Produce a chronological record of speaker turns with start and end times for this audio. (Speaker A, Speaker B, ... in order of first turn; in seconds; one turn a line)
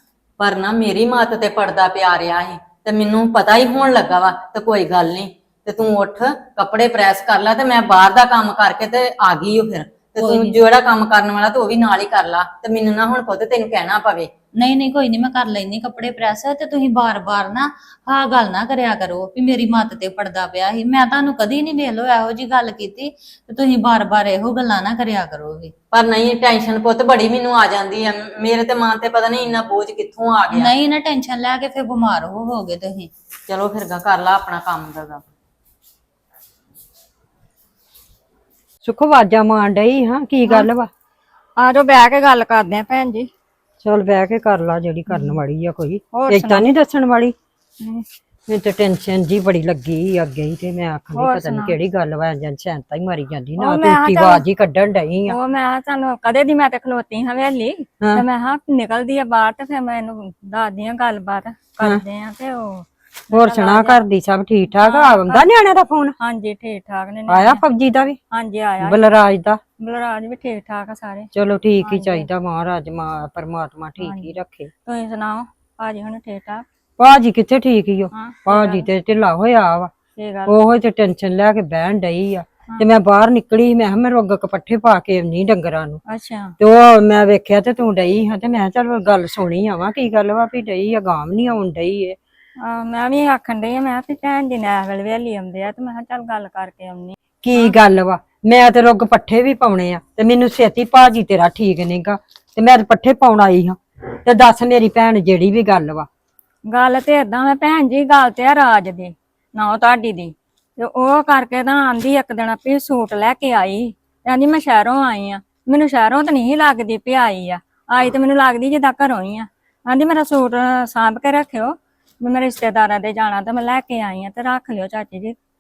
Speaker A: 0.4-14.3
Speaker B: 10.2-10.6
Speaker B: 14.6-25.7
Speaker A: 25.9-30.7
Speaker B: 30.5-33.1
Speaker A: 33.5-35.2
Speaker C: 38.8-40.9
Speaker D: 41.6-43.3
Speaker C: 43.8-47.4
Speaker D: 45.1-45.4
Speaker D: 46.1-46.7
Speaker C: 48.5-55.4
Speaker D: 51.1-51.8
Speaker D: 53.6-54.4
Speaker D: 55.3-64.0
Speaker C: 63.3-66.2
Speaker D: 64.8-65.5
Speaker D: 66.2-67.6
Speaker C: 67.3-68.2
Speaker D: 68.3-69.0
Speaker C: 68.8-69.6
Speaker D: 69.8-71.3
Speaker C: 71.3-74.7
Speaker D: 71.8-72.3
Speaker D: 74.0-74.3
Speaker D: 74.9-76.7
Speaker C: 77.0-79.9
Speaker D: 78.1-78.9
Speaker D: 80.2-80.5
Speaker C: 80.5-86.0
Speaker D: 86.1-86.5
Speaker C: 86.6-92.2
Speaker D: 92.6-97.8
Speaker C: 97.4-106.1
Speaker D: 106.7-125.4